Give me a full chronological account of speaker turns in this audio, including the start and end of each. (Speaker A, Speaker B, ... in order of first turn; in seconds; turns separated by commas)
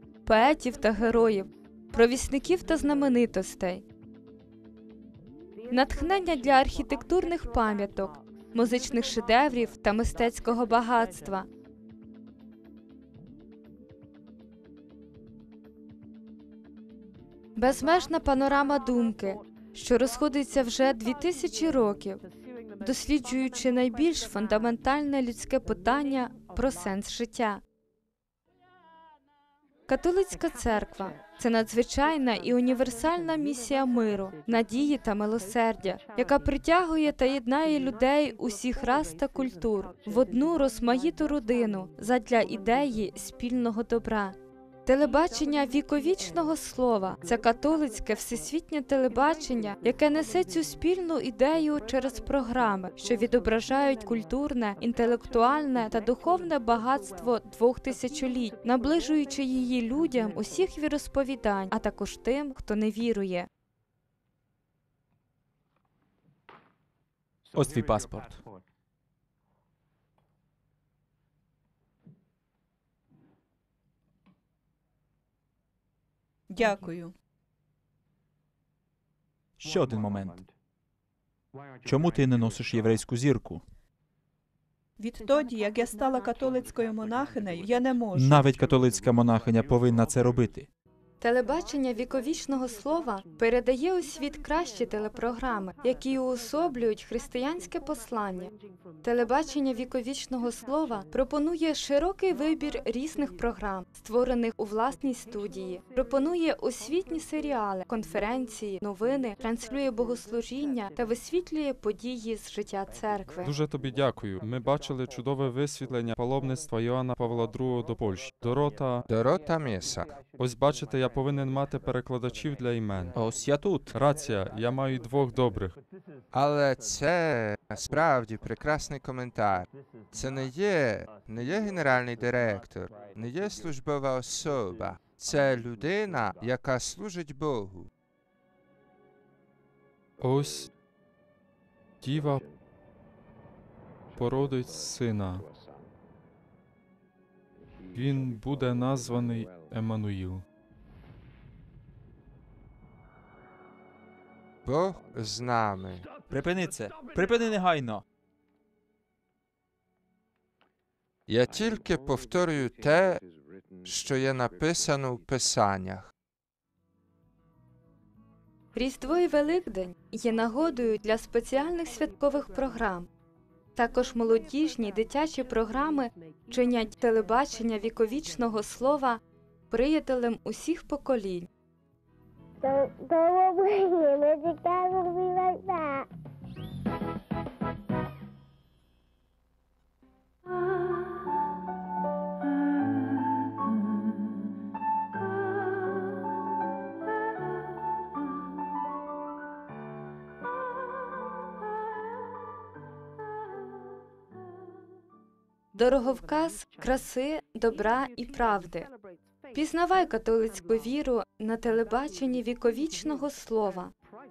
Speaker A: 0.2-3.8, Speaker A: 5.7-11.5, Speaker A: 17.6-22.2, Speaker A: 22.8-27.6, Speaker A: 29.9-44.3, Speaker A: 44.9-63.5, Speaker B: 67.5-68.4, Speaker C: 76.5-77.1, Speaker B: 79.6-80.4, Speaker B: 81.8-83.6, Speaker C: 85.0-88.5, Speaker B: 88.1-90.7, Speaker A: 91.2-98.5, Speaker A: 99.0-113.5, Speaker D: 113.4-119.0, Speaker E: 119.1-120.2, Speaker D: 120.3-123.2, Speaker B: 123.1-123.9, Speaker D: 123.9-125.8, Speaker E: 126.3-137.9, Speaker D: 140.2-140.7, Speaker D: 142.0-142.4, Speaker D: 144.1-145.4, Speaker D: 147.9-150.4, Speaker E: 154.6-156.1, Speaker B: 156.3-158.0, Speaker E: 161.3-163.2, Speaker E: 163.8-166.1, Speaker A: 168.7-173.1, Speaker A: 173.7-181.5, Speaker F: 182.6-186.1, Speaker A: 205.7-208.9, Speaker A: 209.5-213.9